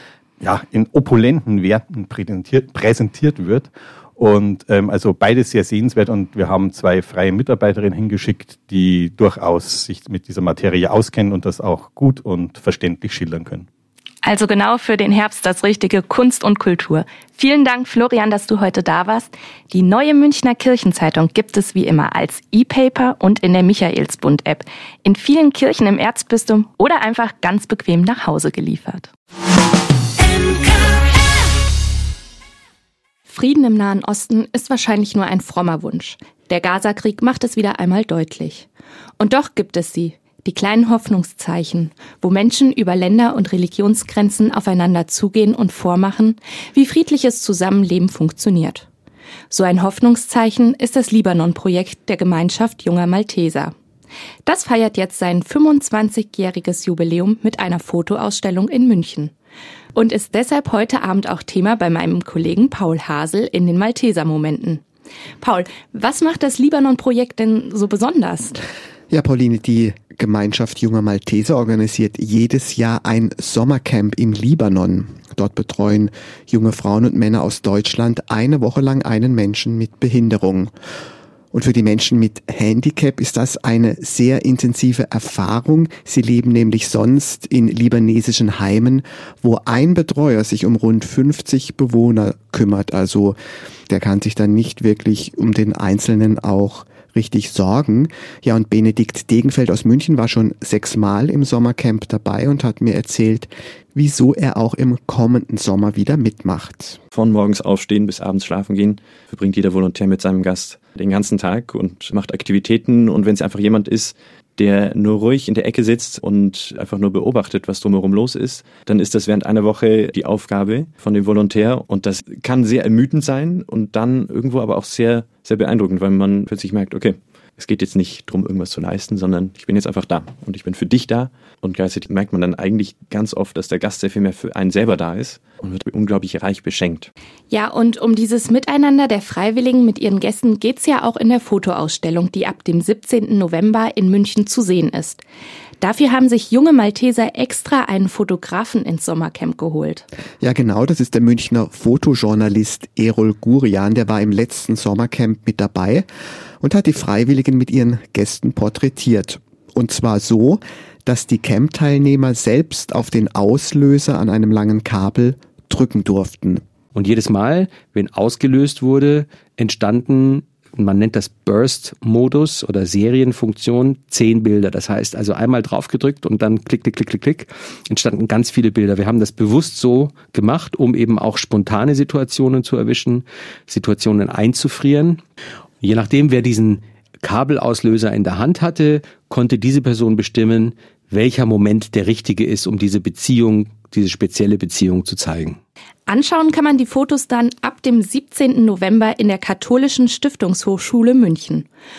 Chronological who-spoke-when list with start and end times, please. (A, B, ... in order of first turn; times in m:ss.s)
0:00.4-0:13.6 A
0:14.2-0:29.1 B
0:33.3-0:48.9 B
0:49.5-0:53.7 B
0:54.4-0:59.3 B
0:59.9-1:04.8 B
1:05.4-1:08.6 B
1:09.1-1:20.7 C
1:21.5-1:33.4 C
1:33.9-1:47.0 C
1:47.1-2:17.1 D
2:17.5-2:25.2 B
2:25.8-2:30.0 B
2:30.4-2:36.0 C
2:36.6-2:46.6 C
2:46.9-3:05.2 E
3:05.8-3:15.6 E
3:16.1-3:21.7 B